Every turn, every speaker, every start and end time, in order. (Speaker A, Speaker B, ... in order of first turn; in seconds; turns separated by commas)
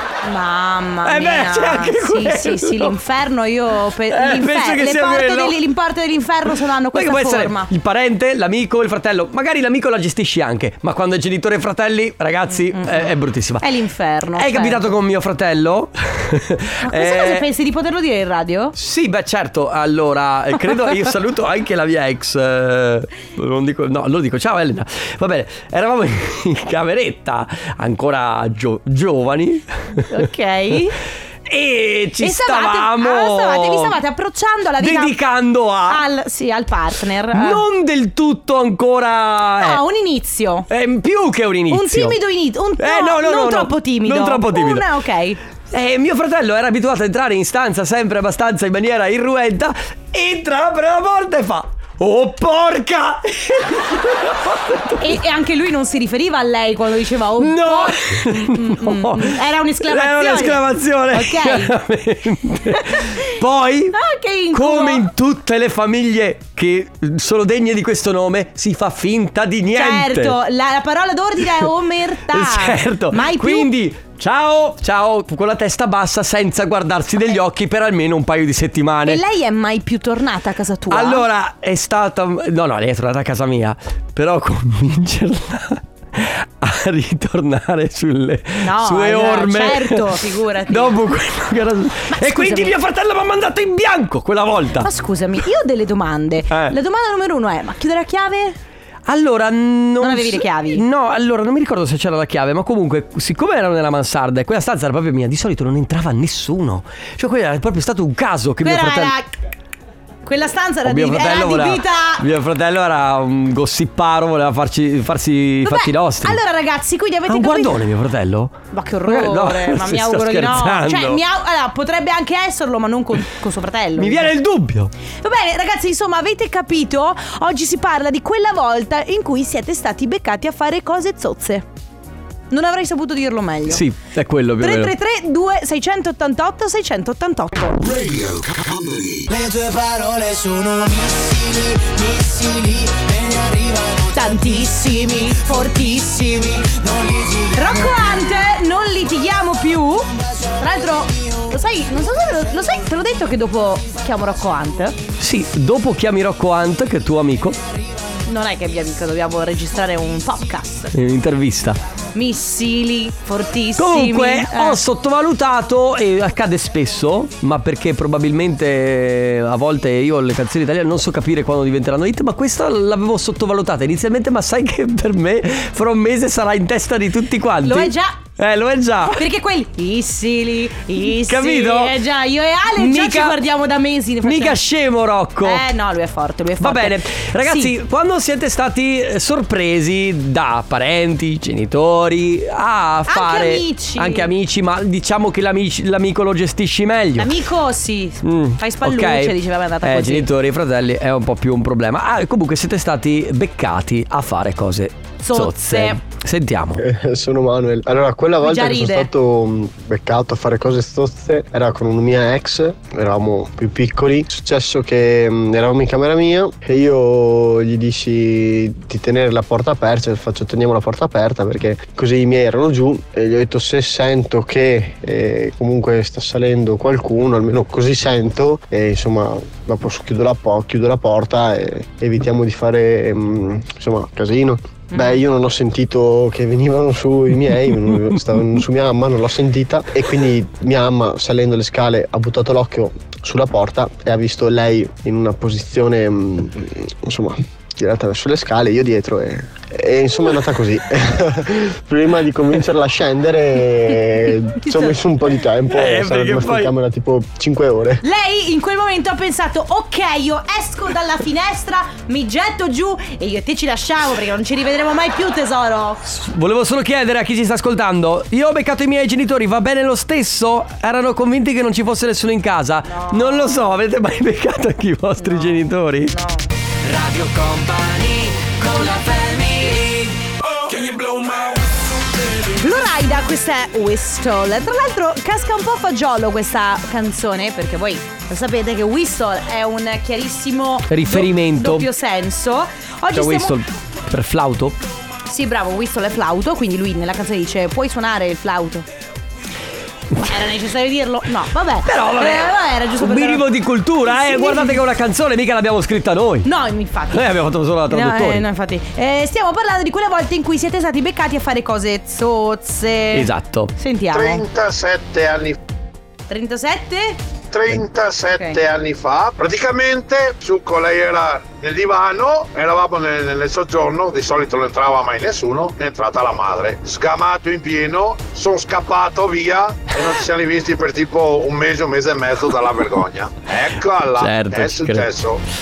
Speaker A: 0.2-7.7, Speaker B: 1.0-3.0, Speaker B: 4.1-5.6, Speaker B: 6.9-13.7, Speaker A: 12.7-13.1, Speaker A: 13.6-14.8, Speaker B: 14.3-17.5, Speaker A: 16.8-18.7, Speaker B: 18.7-30.1, Speaker A: 30.1-31.0, Speaker B: 31.5-34.0, Speaker A: 32.2-35.1, Speaker B: 34.8-36.0, Speaker A: 35.9-37.6, Speaker B: 37.3-39.8, Speaker A: 39.6-40.7, Speaker B: 40.7-42.2, Speaker A: 41.7-45.4, Speaker B: 42.8-44.9, Speaker B: 45.7-55.2, Speaker A: 55.0-61.7, Speaker B: 57.4-64.0, Speaker A: 62.7-63.2, Speaker A: 63.9-65.1, Speaker B: 64.5-70.4, Speaker A: 69.7-73.7, Speaker B: 72.3-79.2, Speaker A: 79.0-81.2, Speaker B: 80.9-90.2, Speaker A: 88.6-91.0, Speaker B: 90.7-94.9, Speaker A: 92.1-92.7, Speaker A: 94.8-98.6, Speaker B: 96.5-96.8, Speaker B: 99.1-109.1, Speaker A: 100.0-100.8, Speaker A: 108.6-109.3, Speaker A: 110.2-112.2, Speaker B: 110.8-116.4, Speaker A: 115.6-117.8, Speaker B: 117.3-118.5, Speaker A: 118.7-124.3, Speaker B: 119.0-121.2, Speaker B: 124.0-124.9, Speaker A: 125.2-131.6, Speaker A: 132.5-133.8, Speaker B: 133.7-134.9, Speaker A: 134.6-137.8, Speaker C: 137.9-144.2, Speaker A: 144.1-146.6, Speaker C: 146.6-147.8, Speaker A: 147.5-155.0, Speaker B: 155.2-157.6, Speaker A: 158.3-160.9, Speaker B: 160.9-161.8, Speaker A: 162.1-164.8, Speaker B: 163.8-179.2, Speaker A: 177.6-178.2, Speaker A: 179.1-184.6, Speaker B: 181.0-181.9, Speaker B: 182.8-183.4, Speaker B: 184.2-185.7, Speaker A: 185.4-187.7, Speaker B: 186.6-197.3, Speaker A: 193.1-194.3, Speaker A: 197.2-200.3, Speaker B: 198.2-206.8, Speaker A: 205.2-206.0, Speaker D: 206.8-258.0, Speaker A: 208.4-209.1, Speaker A: 234.9-235.2, Speaker A: 254.6-255.0, Speaker B: 255.7-256.7, Speaker A: 258.0-266.0, Speaker B: 266.0-276.1, Speaker A: 272.9-273.6, Speaker A: 275.2-276.5, Speaker B: 276.8-280.0, Speaker A: 282.6-293.5, Speaker B: 290.9-291.9, Speaker B: 293.1-294.8, Speaker A: 295.2-298.8, Speaker A: 300.2-303.4, Speaker B: 301.8-306.5, Speaker A: 304.0-304.8, Speaker A: 306.4-307.3, Speaker B: 307.1-308.4, Speaker A: 307.9-314.4, Speaker B: 313.1-313.7, Speaker E: 314.1-315.6, Speaker A: 316.3-317.2, Speaker E: 317.5-335.4, Speaker B: 334.2-335.1